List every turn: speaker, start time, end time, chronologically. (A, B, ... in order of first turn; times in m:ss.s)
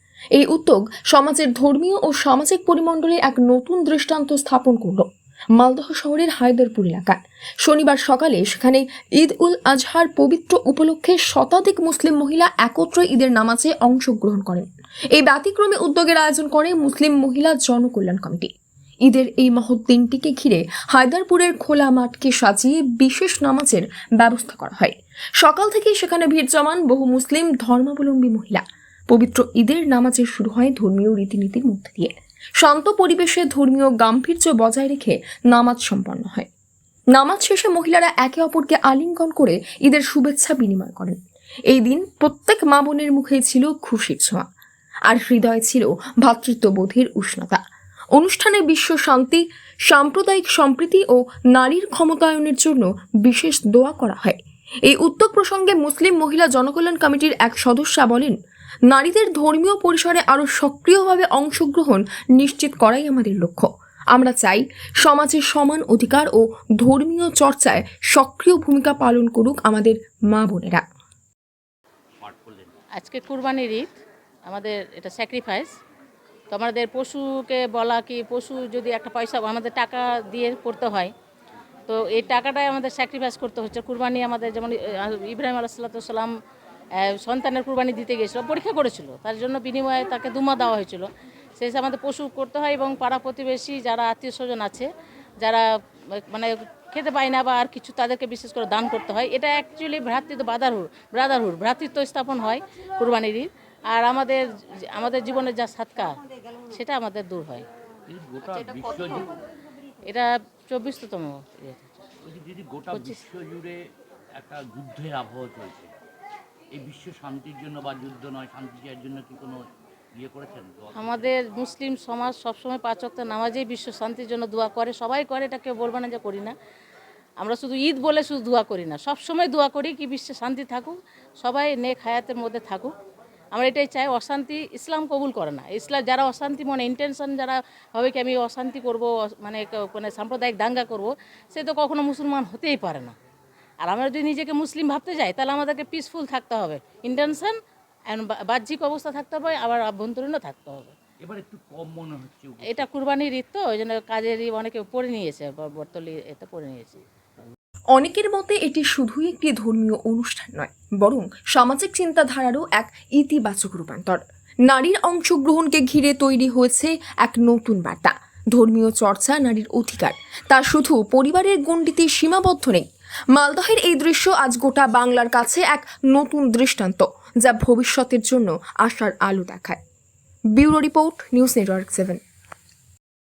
0:00.4-0:18.5 A
0:19.1-0:36.5 A
0:37.2-0:41.2 A
0:41.7-0:44.5 A
0:45.1-0:47.6 A
0:48.2-0:58.4 A
0:58.9-1:10.8 A
1:12.2-1:12.8 B
1:13.0-1:13.9 C
1:14.5-1:15.7 C
1:16.5-1:21.1 C
1:21.9-1:26.3 C
1:27.0-1:34.9 C
1:35.4-1:46.2 C
1:46.7-1:47.7 C
1:48.1-1:49.3 B
1:50.1-1:51.9 C
1:52.2-1:53.8 B
1:52.9-1:53.2 C
1:54.4-1:55.9 B
1:56.7-2:01.4 B
2:01.0-2:06.5 C
2:07.4-2:12.9 C
2:13.5-2:23.1 C
2:23.8-2:27.5 C
2:28.1-2:30.9 C
2:31.2-2:32.9 B
2:32.7-2:37.0 C
2:37.9-2:59.8 A
3:00.6-3:02.2 A